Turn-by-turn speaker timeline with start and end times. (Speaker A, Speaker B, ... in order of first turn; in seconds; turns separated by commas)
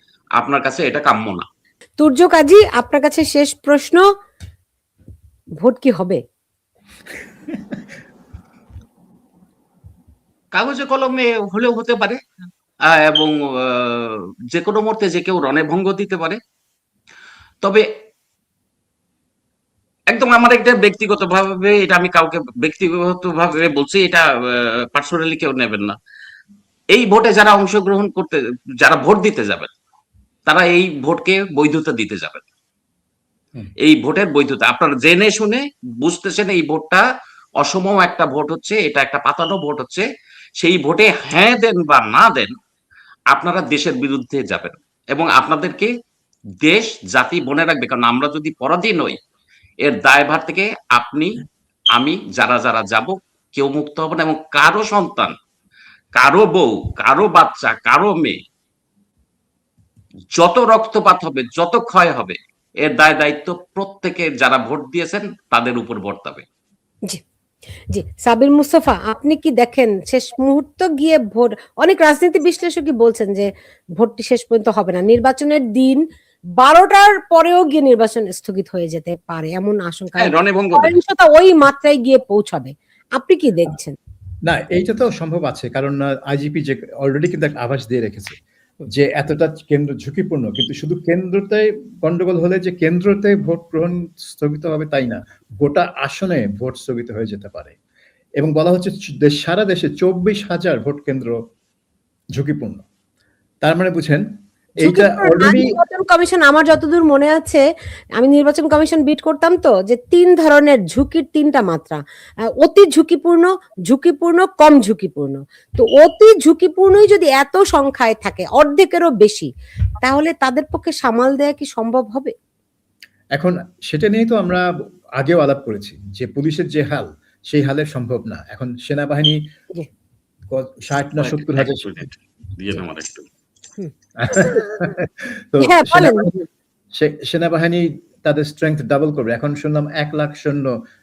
Speaker A: 0.4-1.5, Speaker B: 2.0-4.0, Speaker B: 5.6-6.2, Speaker A: 10.5-12.2, Speaker A: 12.9-16.4, Speaker A: 20.1-26.0, Speaker A: 26.9-29.7, Speaker A: 30.5-32.5, Speaker A: 33.8-37.1, Speaker A: 37.6-40.1, Speaker A: 40.6-42.5, Speaker A: 43.3-45.9, Speaker A: 46.6-49.2, Speaker A: 49.8-51.4, Speaker A: 52.0-55.4, Speaker A: 56.2-58.4, Speaker A: 60.4-66.5, Speaker B: 67.9-76.0, Speaker B: 76.6-84.0, Speaker A: 80.2-81.0, Speaker C: 84.5-88.4, Speaker C: 88.9-97.8, Speaker C: 98.4-101.4, Speaker C: 102.3-102.8, Speaker C: 103.6-104.2, Speaker C: 104.8-105.8, Speaker B: 104.8-107.6, Speaker B: 108.2-112.0, Speaker B: 112.6-119.5, Speaker B: 120.0-122.3, Speaker C: 123.3-124.7, Speaker C: 125.2-129.4, Speaker C: 130.5-132.1, Speaker A: 131.2-133.3, Speaker B: 133.8-134.9, Speaker C: 134.2-136.3, Speaker B: 135.6-136.3, Speaker C: 136.9-140.8